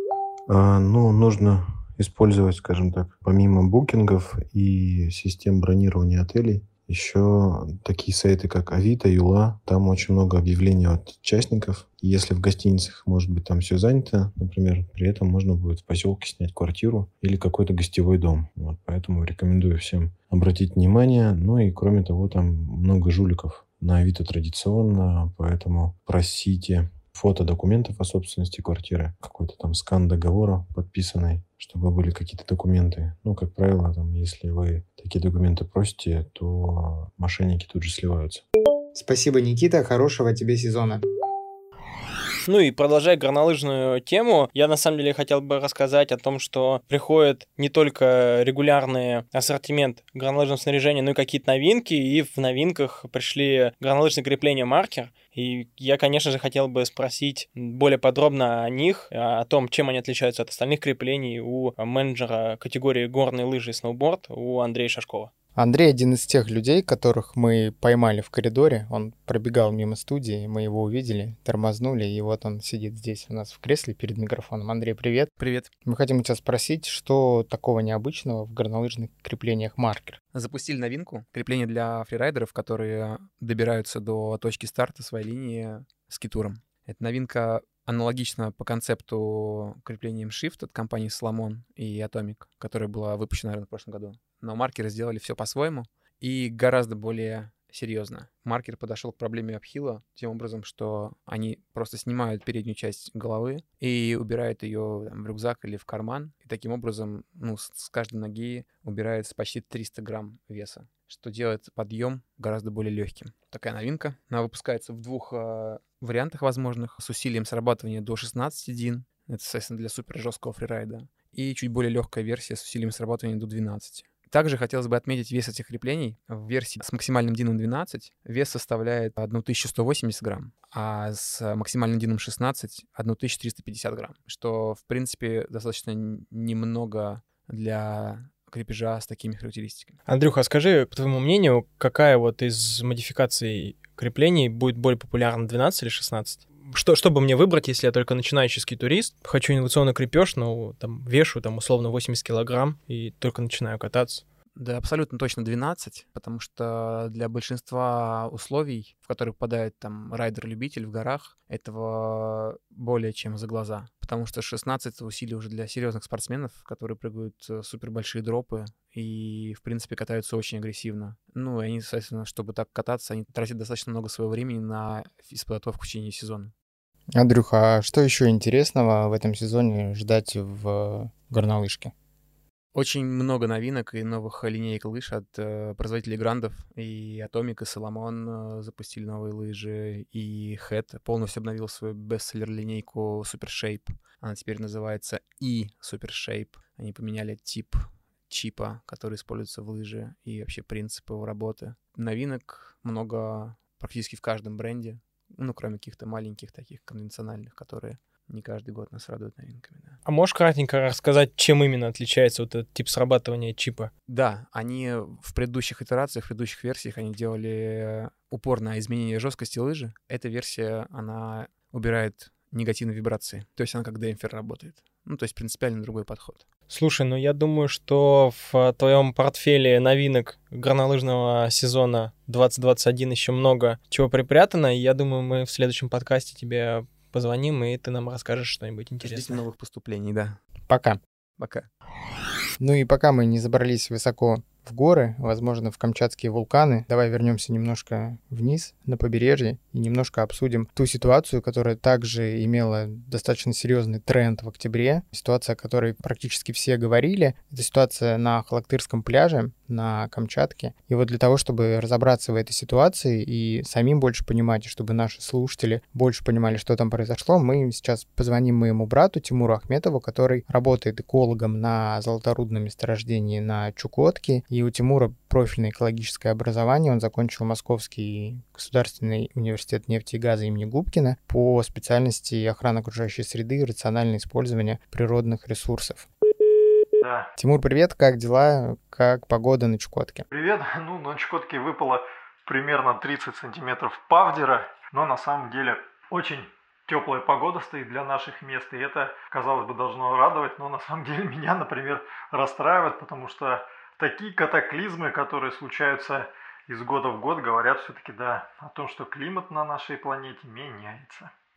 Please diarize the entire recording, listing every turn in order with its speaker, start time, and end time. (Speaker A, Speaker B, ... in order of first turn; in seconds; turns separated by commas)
Speaker A: 0.5-38.5, Speaker B: 38.9-41.0, Speaker C: 42.5-65.3, Speaker B: 65.5-75.3, Speaker D: 75.4-75.7, Speaker B: 75.8-80.2, Speaker D: 80.3-140.0, Speaker C: 140.1-154.2, Speaker D: 154.6-176.5, Speaker B: 177.2-181.9, Speaker D: 182.7-210.0, Speaker C: 210.1-213.9, Speaker D: 214.1-226.5, Speaker C: 226.7-239.4, Speaker D: 239.0-240.4, Speaker B: 240.7-241.0, Speaker D: 241.4-241.7, Speaker B: 242.6-286.1, Speaker E: 287.0-287.3, Speaker B: 287.4-290.3, Speaker E: 290.3-311.3